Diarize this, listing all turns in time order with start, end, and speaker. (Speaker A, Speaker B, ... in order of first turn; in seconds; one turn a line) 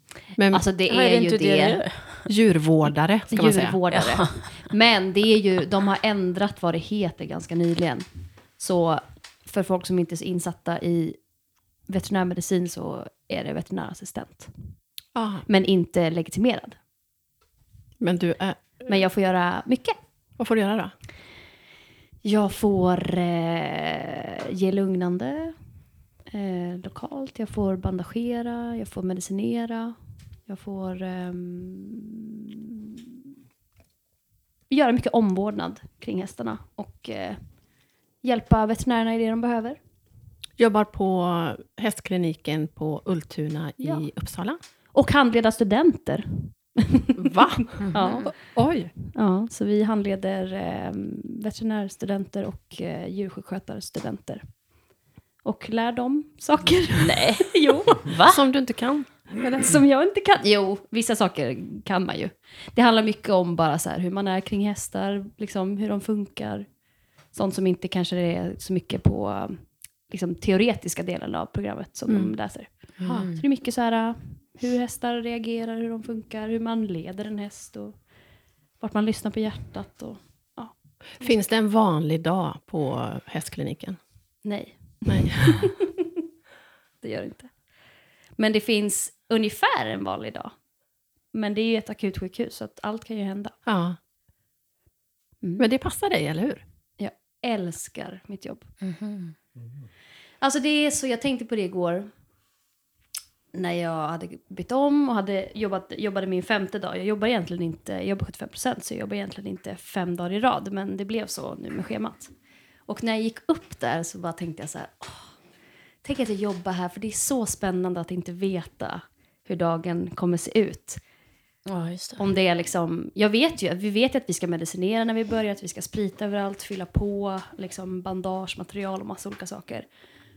Speaker A: 0.3-0.6
Speaker B: 0.5-1.8
Speaker C: 0.9-2.3
Speaker A: 2.2-3.8
Speaker B: 3.3-8.1
Speaker C: 3.9-4.4
Speaker B: 8.6-11.2
Speaker B: 11.9-14.5
Speaker A: 15.1-15.4
Speaker B: 15.5-16.8
Speaker A: 18.0-18.8
Speaker B: 18.8-20.0
Speaker A: 20.4-20.9
Speaker B: 22.2-25.5
Speaker B: 26.3-29.9
Speaker B: 30.5-33.0
Speaker B: 34.7-37.4
Speaker B: 38.2-39.8
Speaker A: 40.6-44.6
Speaker B: 44.9-48.3
Speaker A: 47.2-48.9
Speaker C: 47.8-48.2
Speaker B: 49.1-54.4
Speaker B: 55.4-58.1
Speaker C: 56.9-58.4
Speaker A: 58.2-59.8
Speaker B: 59.6-66.7
Speaker B: 67.3-78.0
Speaker A: 72.1-72.3
Speaker C: 73.0-73.4
Speaker A: 73.0-73.3
Speaker B: 78.8-81.3
Speaker A: 81.2-84.0
Speaker B: 84.4-86.1
Speaker A: 85.0-85.7
Speaker B: 87.0-87.5
Speaker B: 88.4-90.5
Speaker B: 91.3-93.5
Speaker A: 93.7-94.0
Speaker A: 95.6-96.6
Speaker B: 97.0-98.7
Speaker C: 98.8-99.3
Speaker B: 100.4-102.1
Speaker B: 103.5-112.3
Speaker B: 112.9-115.3
Speaker B: 116.0-121.0
Speaker C: 121.7-122.2
Speaker B: 122.2-129.9